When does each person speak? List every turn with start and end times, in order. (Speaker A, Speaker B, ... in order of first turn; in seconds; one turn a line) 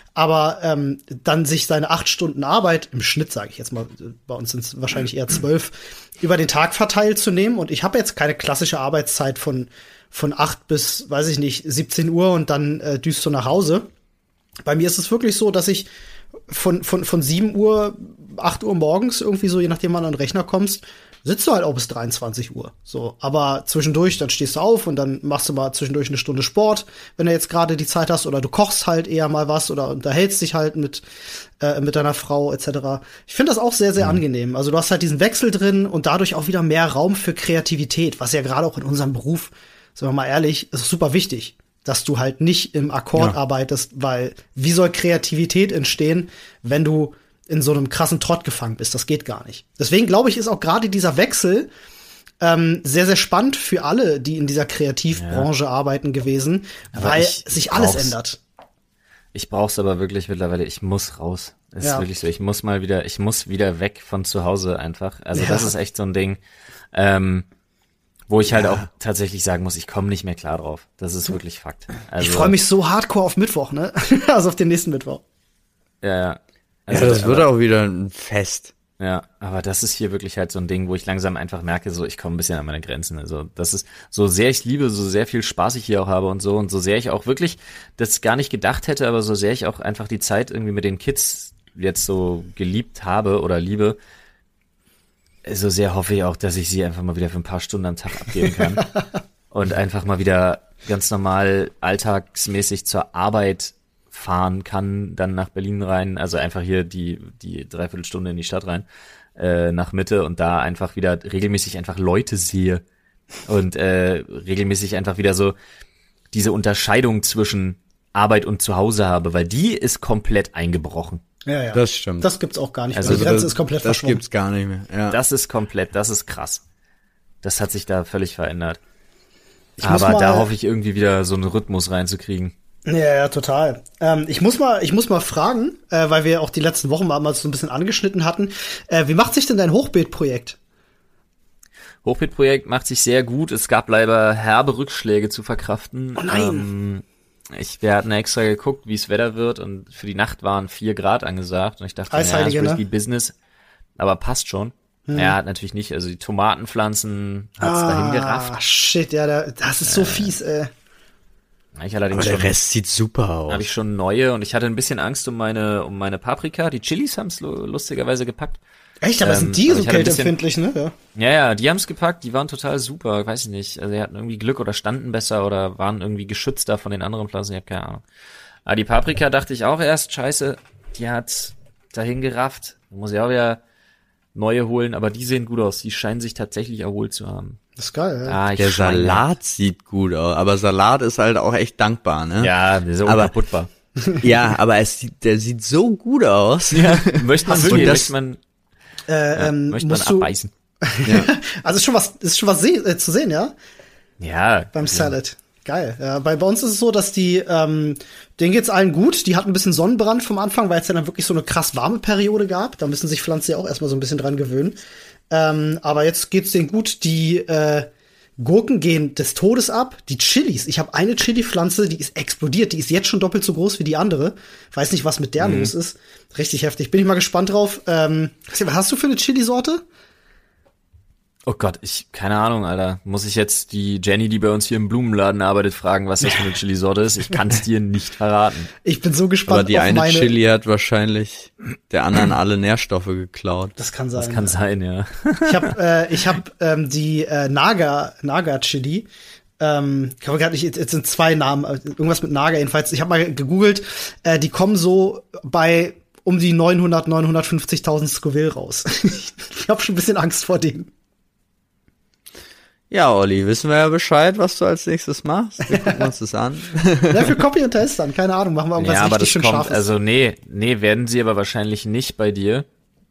Speaker A: 0.1-13.9
Speaker A: 14.6-15.9
Speaker A: 16.5-31.0
Speaker A: 31.6-51.7
Speaker A: 52.4-58.4
Speaker B: 55.1-55.5
Speaker B: 56.9-58.1
Speaker B: 59.3-66.4
Speaker A: 65.3-65.7
Speaker B: 66.9-67.5
Speaker B: 68.3-72.5
Speaker A: 72.2-75.2
Speaker B: 76.0-77.5
Speaker C: 76.9-78.7
Speaker B: 79.0-94.0
Speaker B: 95.4-98.9
Speaker B: 99.5-112.8
Speaker B: 113.5-115.5
Speaker B: 116.3-121.2
Speaker A: 121.5-124.2
Speaker C: 121.7-122.3
Speaker B: 122.9-123.2
Speaker C: 123.0-125.2
Speaker B: 125.1-126.6
Speaker B: 127.4-128.8
Speaker A: 129.8-130.5
Speaker B: 129.8-132.5
Speaker A: 132.8-140.6
Speaker B: 142.0-153.3
Speaker A: 146.2-146.7
Speaker A: 152.1-152.8
Speaker B: 154.0-158.5
Speaker A: 155.1-155.3
Speaker A: 157.6-160.7
Speaker B: 159.8-160.3
Speaker B: 161.8-162.5
Speaker C: 162.1-163.7
Speaker B: 163.5-168.6
Speaker A: 169.0-170.9
Speaker B: 169.2-170.3
Speaker B: 171.2-178.0
Speaker B: 178.7-183.6
Speaker B: 184.3-187.6
Speaker A: 187.8-188.4
Speaker B: 188.2-189.2
Speaker C: 188.6-192.5
Speaker B: 192.4-193.7
Speaker C: 193.0-193.3
Speaker C: 194.2-198.1
Speaker B: 196.7-198.4
Speaker A: 197.5-198.0
Speaker A: 199.1-200.3
Speaker B: 199.3-200.5
Speaker A: 200.8-203.5
Speaker C: 201.0-201.3
Speaker B: 204.2-205.1
Speaker A: 204.7-214.8
Speaker A: 215.3-217.9
Speaker A: 218.4-229.8
Speaker B: 225.4-225.7
Speaker B: 231.4-238.7
Speaker A: 238.8-240.3
Speaker C: 239.4-243.7
Speaker A: 243.8-244.5
Speaker B: 244.2-245.7
Speaker A: 245.4-249.1
Speaker A: 249.6-260.9
Speaker C: 262.9-267.4
Speaker A: 265.7-266.0
Speaker A: 267.1-269.8
Speaker B: 268.8-272.6